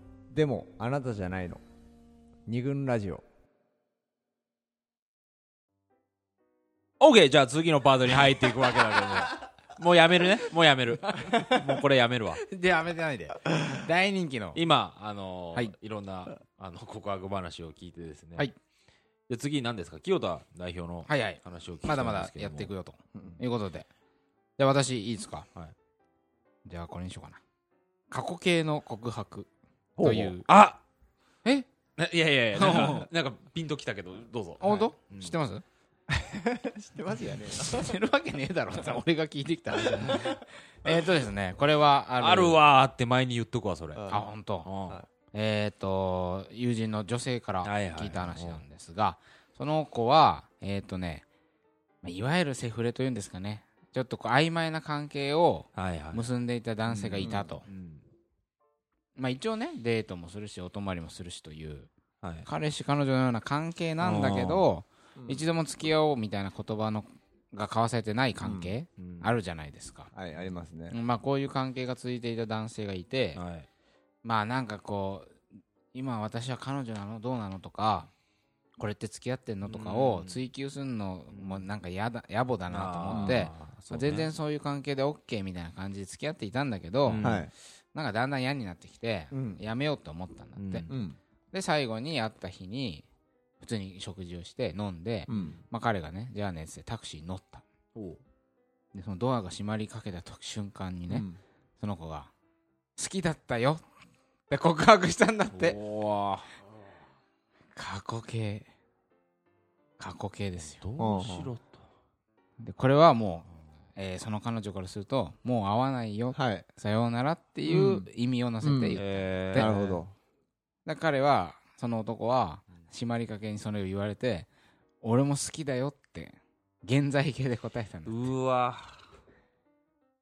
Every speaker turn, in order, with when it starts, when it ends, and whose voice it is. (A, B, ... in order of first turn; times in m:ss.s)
0:00.3-0:01.6 A
0:02.5-0:03.2 A
0:07.0-0:12.4 B
0:11.1-0:11.6 C
0:12.5-0:14.6 C
0:14.5-0:18.5 B
0:19.3-0:22.7 B
0:21.1-0:23.9 C
0:24.6-0:25.5 C
0:26.6-0:27.4 C
0:28.1-0:29.5 C
0:30.0-0:30.8 B
0:30.0-0:30.4 C
0:32.0-0:35.4 B
0:32.6-0:33.1 C
0:34.6-0:35.6 C
0:36.1-0:37.9 A
0:37.5-0:42.6 C
0:42.2-0:45.0 B
0:43.9-0:44.2 A
0:44.1-0:44.7 C
0:45.3-0:51.2 C
0:47.6-0:48.6 B
0:52.0-0:57.6 C
0:55.8-0:56.3 B
0:56.9-0:58.0 B
0:57.2-0:57.5 A
0:59.2-1:01.9 C
1:02.2-1:02.5 B
1:02.4-1:10.1 C
1:04.0-1:04.7 B
1:05.2-1:05.4 A
1:08.4-1:08.7 A
1:09.0-1:09.3 B
1:10.1-1:11.0 A
1:10.9-1:13.4 C
1:13.3-1:13.7 B
1:14.2-1:15.3 C
1:15.9-1:18.1 C
1:18.8-1:30.9 C
1:19.6-1:20.4 B
1:21.3-1:21.7 B
1:22.7-1:24.3 B
1:23.1-1:23.5 A
1:27.0-1:27.4 B
1:27.2-1:27.5 A
1:29.3-1:29.6 A
1:30.6-1:30.9 B
1:30.9-1:31.2 A
1:31.5-1:33.0 C
1:33.6-1:37.6 C
1:35.3-1:35.6 A
1:35.3-1:35.6 B
1:37.9-1:38.2 B
1:38.9-1:41.3 C
1:41.1-1:41.4 A
1:41.8-1:42.3 C
1:43.0-1:43.8 C
1:44.5-1:45.8 C
1:45.5-1:46.5 B
1:47.8-1:48.7 C
1:50.0-1:50.8 C
1:50.8-1:51.8 B
1:51.0-1:51.5 A
1:52.6-1:59.9 C
1:56.3-1:56.6 A
1:57.6-1:58.0 A
1:58.6-1:59.0 A
1:58.9-2:00.0 B
1:59.5-2:00.1 A
2:00.8-2:04.5 C
2:05.0-2:08.3 C
2:08.0-2:09.0 B